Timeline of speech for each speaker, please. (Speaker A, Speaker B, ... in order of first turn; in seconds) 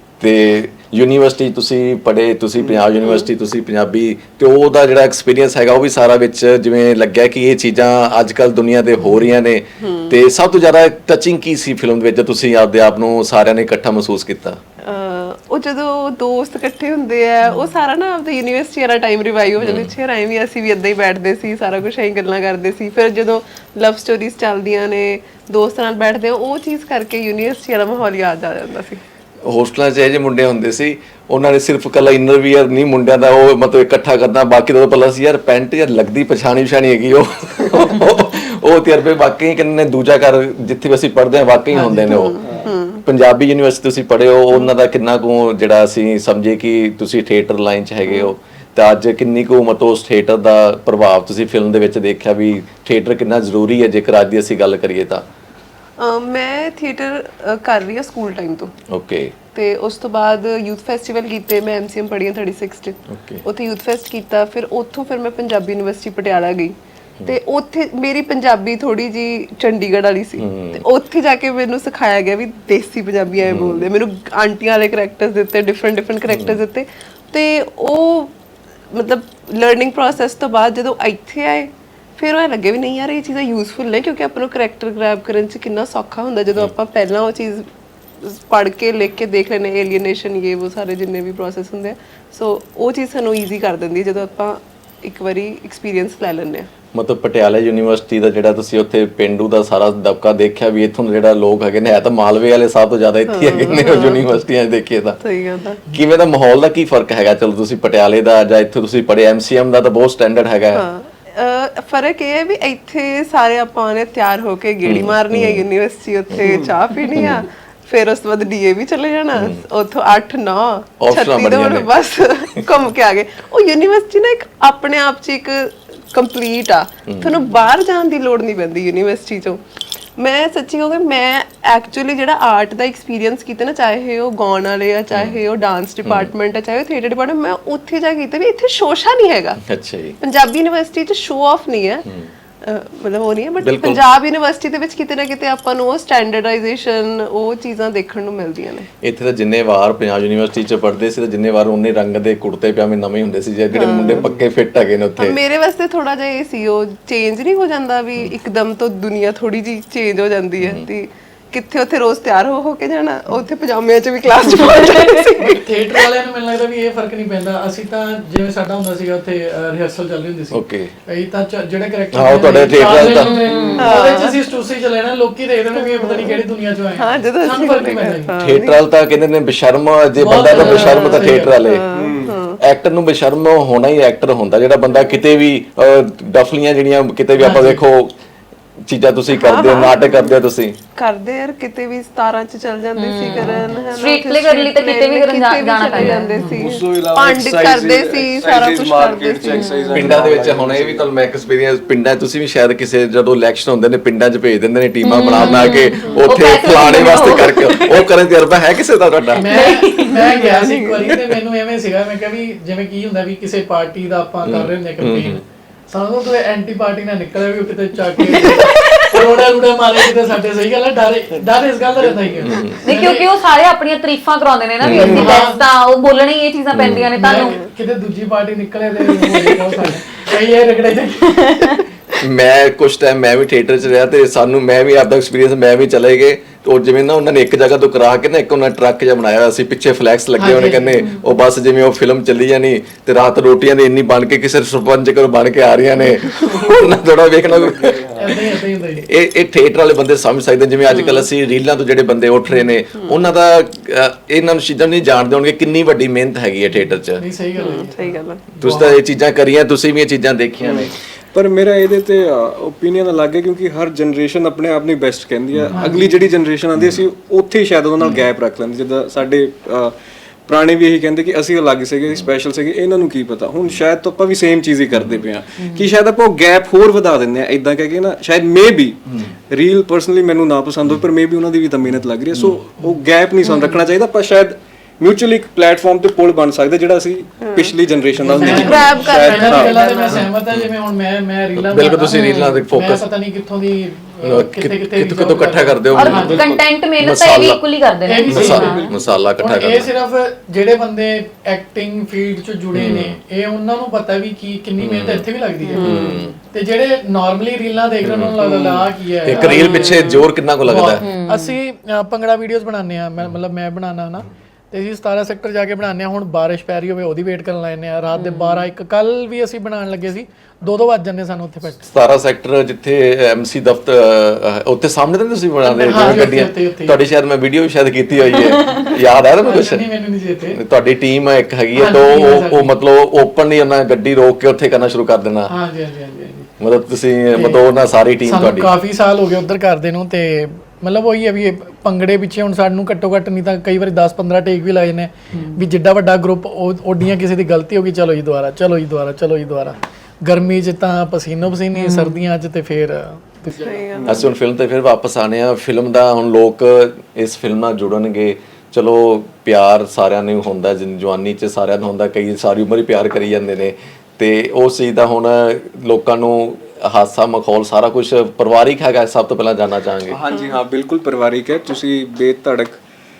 Speaker A: 0.2-14.6, 19.6-19.9, 29.4-42.4, 43.0-55.2, 58.9-59.3, 63.1-63.4, 70.4-70.8, 73.4-73.9, 76.3-76.6, 96.9-105.2, 105.9-110.8, 114.8-115.6, 117.1-117.4, 121.0-121.9, 127.1-127.3, 135.1-135.4, 136.0-136.3, 139.6-140.2, 143.6-144.0, 149.0-155.4, 160.6-160.8, 170.5-170.9, 172.1-173.3, 178.4-181.8, 182.6-188.1, 188.9-190.8, 199.9-209.5, 214.4-215.4, 222.4-222.8, 224.8-225.3, 226.7-227.1, 232.2-248.4, 249.0-257.2, 258.6-260.9, 265.5-265.8, 266.7-267.0, 274.9-275.2, 291.6-293.0, 294.2-296.4, 297.0-297.6, 298.3-299.9, 302.7-303.2, 304.8-305.3, 305.8-306.3, 308.0-308.4, 309.2-311.0, 321.9-329.9, 330.5-335.5, 336.6-338.7, 354.1-370.2
Speaker B: 3.0-3.3, 9.8-10.1, 14.8-29.0, 42.0-43.0, 48.1-48.3, 56.0-58.7, 59.5-78.3, 78.9-87.6, 88.2-96.7, 103.3-104.2, 105.2-105.8, 110.7-129.6, 130.2-139.6, 140.2-142.1, 142.6-148.9, 153.7-154.2, 155.2-166.0, 173.8-174.4, 175.7-178.8, 180.5-182.6, 189.3-190.3, 190.9-200.2, 210.1-211.2, 218.3-218.9, 250.9-251.3, 257.6-258.4, 287.4-287.7, 288.3-290.3, 305.7-306.2, 353.6-354.3, 370.3-370.6
Speaker C: 41.7-42.1, 165.4-178.3, 180.2-181.6, 187.4-187.8, 196.0-196.2, 209.3-223.3, 224.9-225.6, 227.2-231.6, 240.4-241.1, 248.2-249.1, 257.1-259.0, 265.8-266.1, 288.2-296.4, 298.1-310.0, 310.6-321.8, 325.6-327.0, 329.4-330.6, 331.7-332.7, 335.5-336.5, 337.3-337.6, 338.2-353.8
Speaker D: 42.4-42.7, 116.4-116.7, 181.9-182.3, 196.4-201.1, 222.0-222.5, 224.9-225.3, 247.5-248.3, 260.6-269.9, 270.5-290.2, 296.1-296.6, 298.3-299.2, 308.4-308.9, 353.9-354.3, 370.1-372.8
Speaker E: 173.1-173.9, 193.0-196.6, 199.5-200.1, 205.0-208.1, 209.4-210.4, 218.5-218.8, 222.8-227.6, 231.4-231.8, 275.6-275.9, 283.4-283.7, 292.1-292.5, 295.9-298.9, 309.3-310.2, 311.0-311.6, 318.1-318.6, 328.3-328.9, 345.3-345.6, 351.7-352.2